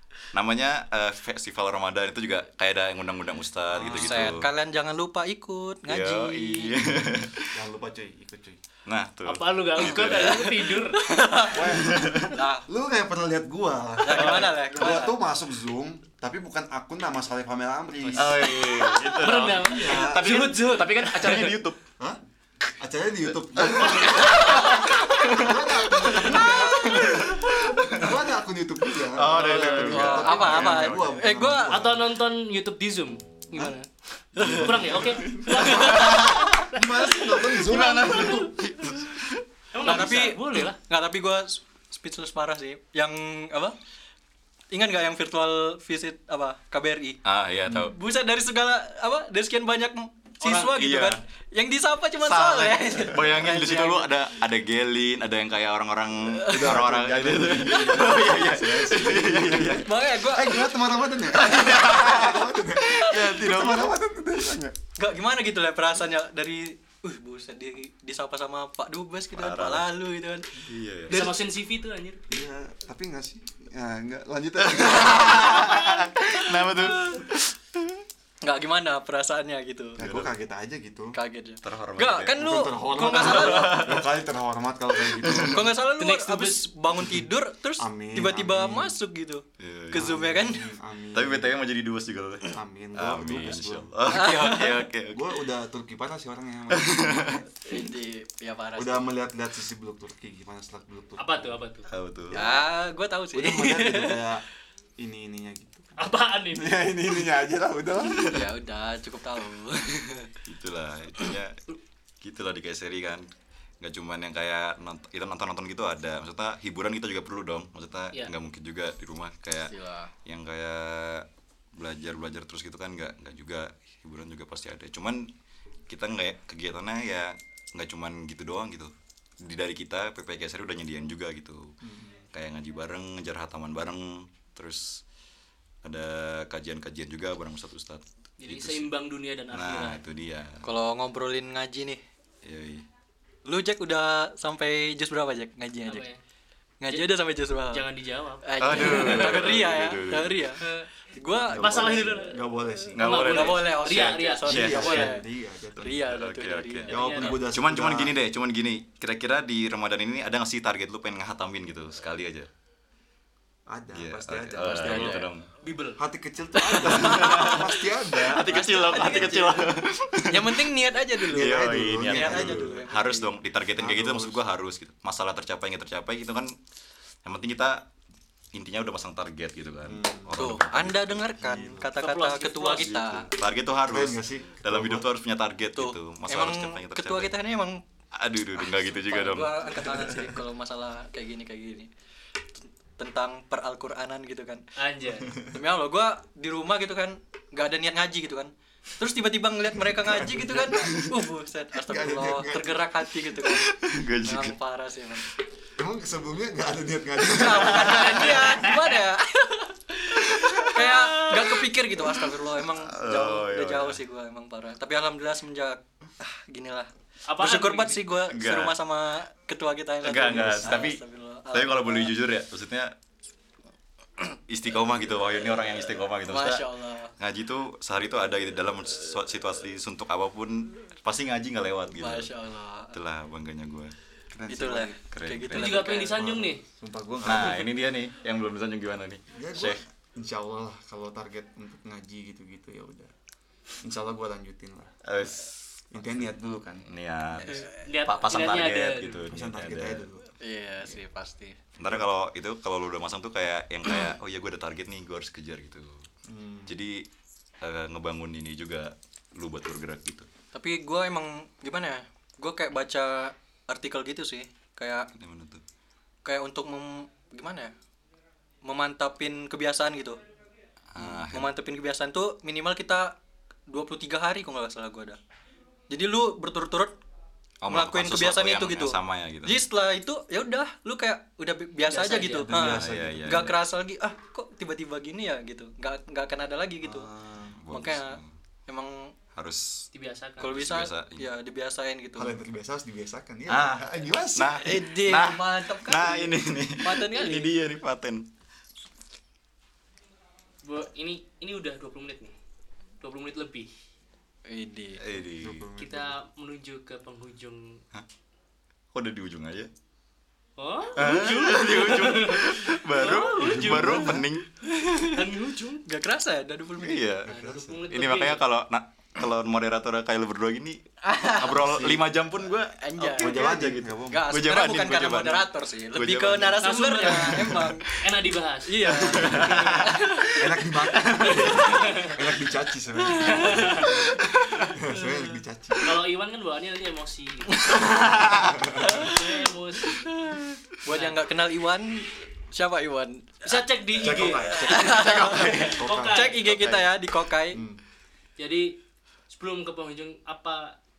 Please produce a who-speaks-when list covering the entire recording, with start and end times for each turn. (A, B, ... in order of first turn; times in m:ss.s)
0:00.3-0:04.5 A
0:03.7-0:04.4 B
0:03.8-0:06.8 C
0:05.9-0:07.6 A
0:07.5-0:08.6 B
0:08.9-0:10.8 A
0:09.2-0:11.0 D
0:10.2-0:12.7 C
0:11.5-0:18.6 B
0:11.6-0:12.4 A
0:14.0-0:15.2 C
0:14.2-0:14.4 A
0:18.0-0:18.5 D
0:18.2-0:21.8 A
0:19.2-0:21.5 D
0:19.3-0:20.5 B
0:22.8-0:32.1 B
0:23.6-0:28.2 A
0:24.5-0:24.8 D
0:26.4-0:27.0 C
0:29.0-0:31.2 A
0:29.4-0:29.9 D
0:29.6-0:31.8 C
0:31.7-0:33.9 D
0:34.4-0:34.8 C
0:34.4-0:34.8 A
0:34.4-0:38.5 B
0:34.5-0:37.4 D
0:35.5-0:36.4 C
0:35.6-0:36.6 A
0:37.4-0:39.4 A
0:39.7-0:40.8 D
0:39.8-0:43.8 C
0:44.7-0:47.2 C
0:47.2-0:48.0 A
0:47.7-0:54.1 C
0:50.4-0:50.7 D
0:50.5-0:51.2 A
0:52.2-0:59.9 A
0:56.3-0:56.8 C
0:56.5-1:04.8 B
0:59.8-1:00.7 C
1:01.3-1:03.9 A
1:05.0-1:11.4 C
1:09.4-1:09.9 A
1:10.6-1:11.2 A
1:11.1-1:12.2 D
1:12.3-1:16.1 B
1:14.6-1:18.0 A
1:18.4-1:20.0 C
1:20.0-1:21.2 B
1:20.0-1:20.3 A
1:21.1-1:24.0 C
1:21.6-1:24.1 A
1:22.4-1:25.8 B
1:25.0-1:25.7 A
1:25.5-1:30.7 C
1:25.9-1:26.6 D
1:27.8-1:29.0 B
1:29.6-1:30.2 A
1:29.9-1:31.6 B
1:31.1-1:35.3 A
1:32.4-1:34.4 B
1:34.1-1:34.9 C
1:35.1-1:37.4 B
1:36.7-1:37.4 A
1:37.7-1:39.1 C
1:38.8-1:41.6 B
1:41.2-1:41.9 D
1:41.9-1:42.5 A
1:42.3-1:44.2 C
1:43.3-1:44.4 B
1:45.0-1:48.4 B
1:46.0-1:46.8 D
1:48.3-1:50.3 C
1:50.5-1:51.6 A
1:52.2-1:53.3 A
1:53.8-1:59.7 A
1:59.7-2:00.1 C
2:00.2-2:05.3 A
2:05.9-2:11.8 A
2:11.8-2:12.3 B
2:12.3-2:15.0 A
2:15.8-2:18.9 A
2:18.4-2:20.0 D
2:19.5-2:20.7 A
2:20.6-2:22.0 C
2:22.4-2:22.9 A
2:23.4-2:26.0 C
2:25.9-2:26.2 D
2:26.8-2:27.9 C
2:27.7-2:29.5 D
2:28.4-2:32.1 C
2:28.6-2:30.5 A
2:30.6-2:30.9 D
2:31.5-2:33.0 B
2:31.6-2:32.4 D
2:32.9-2:35.2 A
2:33.0-2:35.0 D
2:33.0-2:35.3 C
2:34.5-2:36.0 B
2:35.8-2:42.5 A
2:35.8-2:36.9 C
2:36.9-2:37.5 D
2:36.9-2:38.2 B
2:43.7-2:45.3 B
2:43.9-2:45.5 A
2:44.6-2:45.3 C
2:45.6-2:46.0 D
2:46.0-2:49.2 B
2:46.6-2:49.6 C
2:46.8-2:56.6 A
2:48.4-2:49.6 D
2:50.3-2:53.4 C
2:51.3-2:52.8 B
2:53.8-2:54.4 B
2:57.2-2:57.9 A
2:58.5-3:01.3 A
2:59.8-3:00.4 B
3:00.4-3:03.3 C
3:01.4-3:01.9 B
3:02.0-3:03.0 D
3:02.8-3:07.4 A
3:03.8-3:05.1 B
3:05.8-3:07.8 C
3:08.1-3:10.0 A
3:08.6-3:11.9 C
3:13.0-3:14.6 C
3:14.8-3:15.3 D
3:15.3-3:23.7 C
3:20.2-3:22.8 B
3:23.4-3:24.5 A
3:24.2-3:25.3 C
3:25.8-3:28.4 B
3:27.3-3:42.2 C
3:27.6-3:28.3 A
3:28.2-3:28.9 D
3:30.2-3:34.0 A
3:37.3-3:38.0 D
3:38.3-3:38.8 A
3:40.0-3:41.0 A
3:40.4-3:40.7 B
3:41.5-3:42.9 A
3:44.3-3:52.3 A
3:46.3-3:47.1 C
3:52.0-3:53.0 C
3:52.9-3:53.9 A
3:54.3-3:54.9 B
3:54.5-3:56.3 C
3:55.1-3:55.9 A
3:55.5-3:56.6 D
3:56.2-3:57.6 B
3:57.2-3:59.8 A
3:59.3-4:03.1 B
4:03.8-4:05.0 B
4:05.0-4:05.8 A
4:05.9-4:06.9 B
4:06.9-4:10.1 A
4:07.8-4:09.3 D
4:09.3-4:10.3 B
4:10.4-4:11.6 C
4:11.8-4:16.1 A
4:16.2-4:16.7 B
4:16.7-4:17.1 A
4:17.6-4:20.3 A
4:20.5-4:25.1 C
4:25.2-4:25.6 A
4:26.2-4:27.7 C
4:28.6-4:30.2 C
4:30.9-4:31.5 A
4:31.0-4:33.2 C
4:33.7-4:35.2 C
4:35.9-4:37.0 C
4:37.6-4:39.6 A
4:37.7-4:47.1 C
4:41.9-4:42.5 D
4:42.4-4:43.6 B
4:42.5-4:43.6 A
4:46.8-4:47.6 B
4:47.5-4:48.3 A
4:47.7-4:49.2 C
4:49.3-4:49.9 A
4:49.9-4:50.6 D
4:50.4-4:52.4 C
4:50.4-4:51.3 A
4:52.2-4:54.6 B
4:53.5-4:58.3 A
4:54.5-4:57.5 C
5:00.6-5:02.4 D
5:03.0-5:03.7 D
5:04.5-5:05.0 C
5:05.0-5:05.7 A
5:05.4-5:06.2 B
5:05.8-5:07.8 D
5:08.9-5:09.7 A
5:10.6-5:14.2 D
5:11.0-5:14.5 A
5:13.4-5:14.3 B
5:14.7-5:15.2 C
5:15.0-5:15.8 D
5:15.9-5:17.2 C
5:16.8-5:27.8 A
5:17.2-5:17.8 B
5:17.3-5:18.4 D
5:21.0-5:21.9 C
5:21.6-5:22.1 B
5:22.8-5:23.6 C
5:23.2-5:24.3 B
5:24.1-5:27.9 C
5:26.6-5:28.9 D
5:28.7-5:30.4 C
5:28.8-5:30.3 A
5:30.3-5:36.0 B
5:31.0-5:31.2 A
5:31.2-5:32.1 D
5:31.6-5:32.1 C
5:33.2-5:34.0 D
5:35.8-5:38.2 D
5:37.5-5:39.2 C
5:37.8-5:38.6 A
5:38.3-5:39.0 B
5:38.8-5:40.2 D
5:40.0-5:43.6 C
5:40.9-5:41.2 D
5:43.4-5:46.4 D
5:44.0-5:46.3 B
5:44.5-5:47.6 C
5:44.8-5:45.8 A
5:46.4-5:46.9 A
5:47.5-5:47.8 B
5:48.4-5:48.8 D
5:49.3-5:50.8 D